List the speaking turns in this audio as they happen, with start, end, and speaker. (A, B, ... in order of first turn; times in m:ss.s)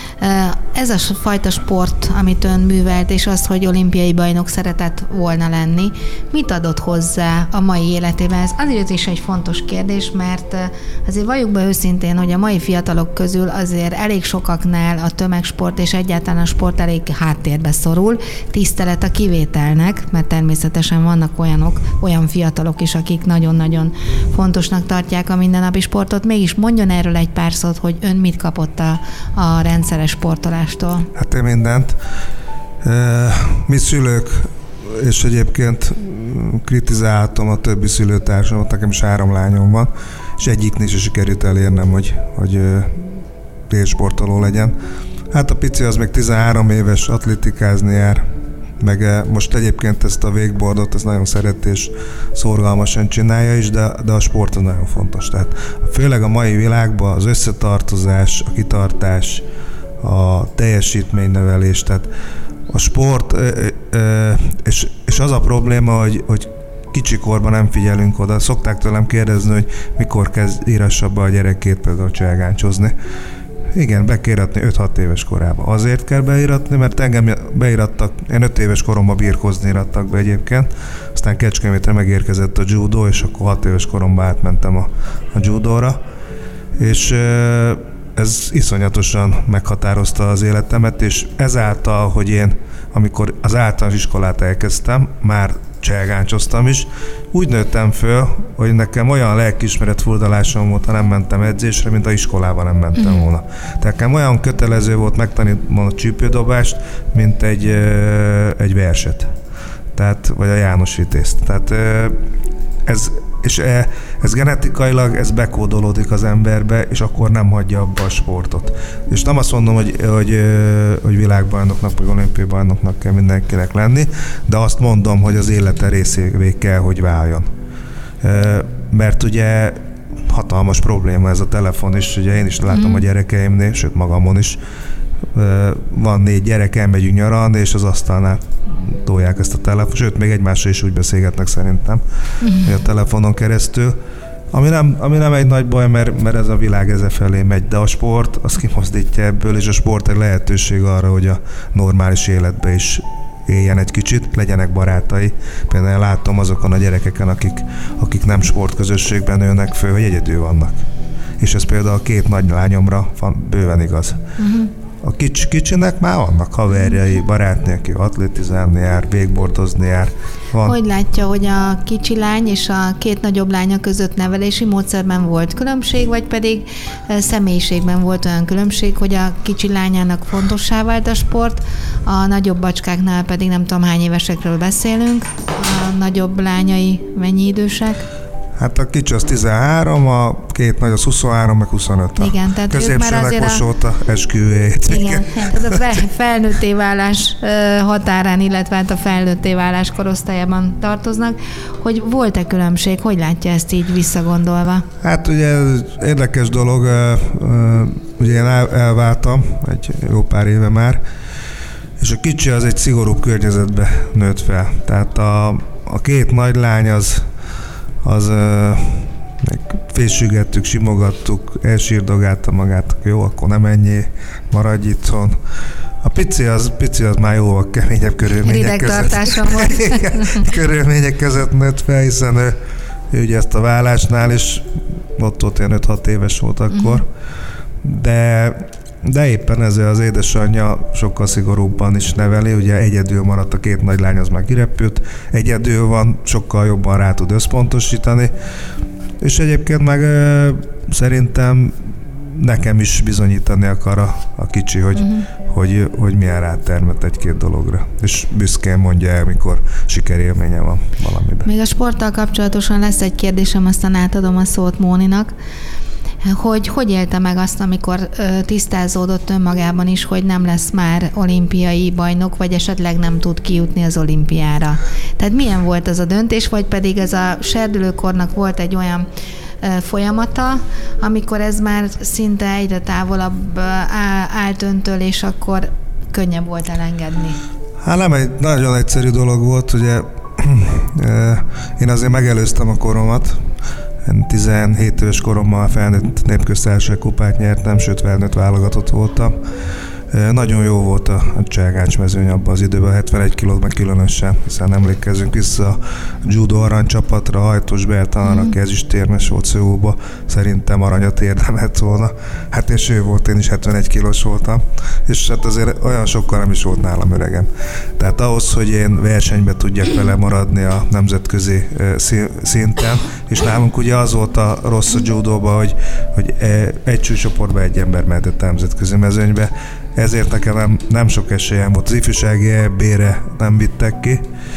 0:00.2-0:31.1 A
0:31.2-0:32.0 B
0:32.8-0:43.2 B
0:43.7-0:44.8 B
0:45.3-0:48.2 B
0:48.8-0:59.4 B
1:00.0-1:02.1 B
1:02.7-1:12.9 B
1:13.7-1:26.0 B
1:26.8-1:49.3 B
1:50.0-1:52.2 B
1:52.9-2:07.5 B
2:08.2-2:14.6 B
2:12.8-2:13.0 A
2:15.3-2:22.0 B
2:22.4-2:22.7 A
2:22.6-2:24.0 B
2:24.5-2:40.8 B
2:41.4-2:44.2 B
2:44.4-2:44.7 A
2:45.0-2:50.8 B
2:50.6-3:08.1 A
3:08.6-3:15.8 B
3:12.2-3:13.6 A
3:14.9-3:24.9 A
3:25.0-3:31.0 B
3:32.0-3:37.2 B
3:38.0-3:45.4 B
3:46.0-3:52.6 B
3:48.4-3:50.4 A
3:53.1-3:57.1 B
3:56.7-3:57.0 A
3:57.8-4:08.3 B
4:09.2-4:21.5 B
4:15.0-4:15.2 A
4:21.4-4:25.3 A
4:26.2-4:39.1 A
4:39.6-4:47.4 A
4:47.8-4:53.4 B
4:54.0-4:59.4 B
5:00.1-5:34.2 B
5:08.3-5:08.5 A